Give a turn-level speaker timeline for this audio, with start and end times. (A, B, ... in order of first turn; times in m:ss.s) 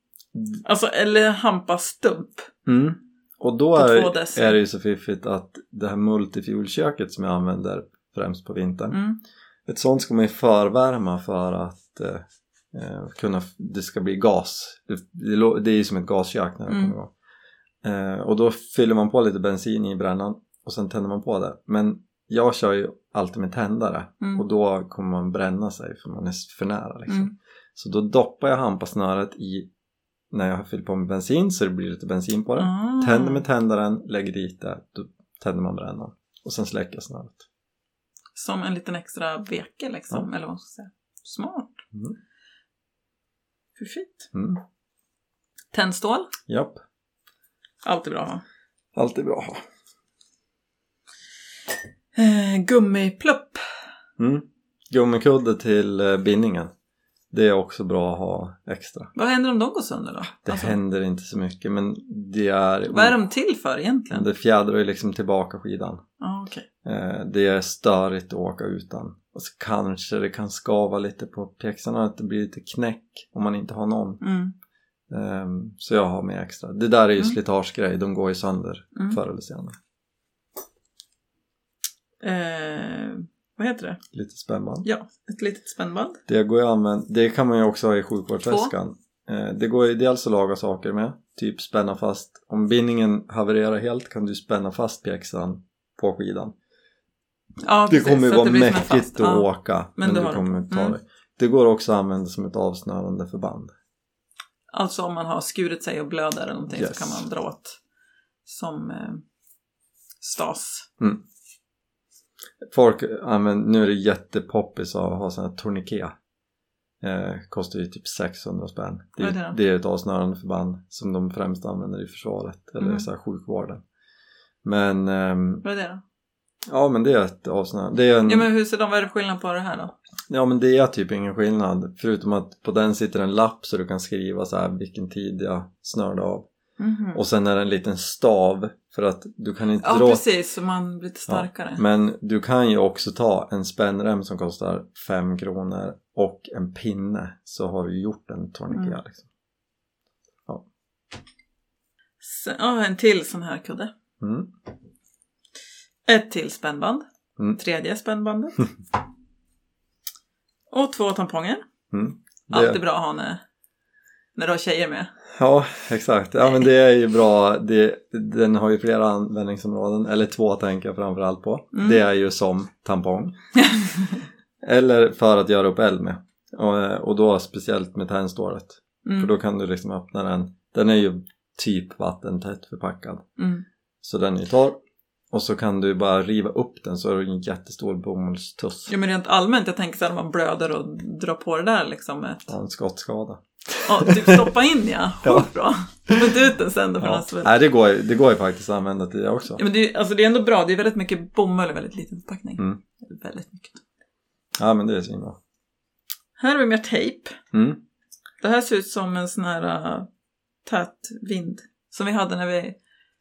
0:00.3-0:00.6 A
0:00.6-0:02.5 B
0:02.6-0:09.0 A
0:03.8-0:04.6 B
0:08.9-0:09.2 B
0:09.7-0:17.1 A
0:16.7-0:16.9 B
0:17.8-0:29.7 A
0:27.1-0:27.3 B
0:30.3-0:37.4 A
0:32.6-0:33.4 B
0:38.3-0:41.8 B
0:43.8-0:44.3 B
0:44.3-0:44.6 A
0:45.7-0:46.3 B
0:46.5-0:46.8 A
0:47.8-0:48.4 B
0:48.9-0:49.6 A
0:52.1-0:53.6 B
0:54.2-0:56.7 A
0:57.3-0:59.1 A
0:59.1-1:00.8 B
1:00.3-1:03.2 A
1:02.9-1:04.2 B
1:04.1-1:06.0 A
1:06.2-1:06.6 B
1:06.8-1:14.2 A
1:14.2-1:14.5 B
1:15.1-1:19.8 A
1:22.2-1:24.0 B
1:24.1-1:24.9 A
1:24.8-1:26.2 B
1:26.3-1:36.5 A
1:28.5-1:28.7 B
1:37.6-1:41.0 B
1:37.9-1:43.7 A
1:44.7-1:47.8 B
1:46.7-1:47.2 A
1:48.4-1:49.2 B
1:50.2-1:50.9 B
1:52.7-1:56.1 A
1:57.0-2:03.8 A
1:59.2-1:59.6 B
2:02.8-2:03.1 B
2:04.6-2:05.6 A
2:05.6-2:06.0 B
2:06.7-2:08.5 A
2:08.2-2:09.9 B
2:10.3-2:16.5 A
2:16.8-2:17.2 B
2:17.1-2:20.2 A
2:19.8-2:21.8 B
2:21.3-2:29.2 A
2:28.7-2:29.0 B
2:32.2-2:33.9 B
2:34.2-2:34.5 A
2:36.0-2:37.0 B
2:37.6-2:38.6 B
2:40.7-2:41.6 B
2:41.9-2:42.8 A
2:42.5-2:43.4 B
2:44.3-2:45.1 B
2:45.4-2:53.3 A
2:51.7-2:52.0 B
2:53.6-2:54.1 B
2:54.6-3:03.2 A
2:59.0-2:59.3 B
3:03.4-3:03.6 B
3:04.0-3:04.8 A
3:05.3-3:08.9 A
3:08.9-3:12.5 B
3:12.5-3:14.5 A
3:13.8-3:17.5 B
3:15.2-3:15.5 A
3:17.0-3:19.6 A
3:19.6-3:23.8 B
3:24.6-3:25.4 A
3:26.4-3:27.4 B
3:27.5-3:27.8 A
3:28.4-3:30.1 B
3:30.6-3:32.8 B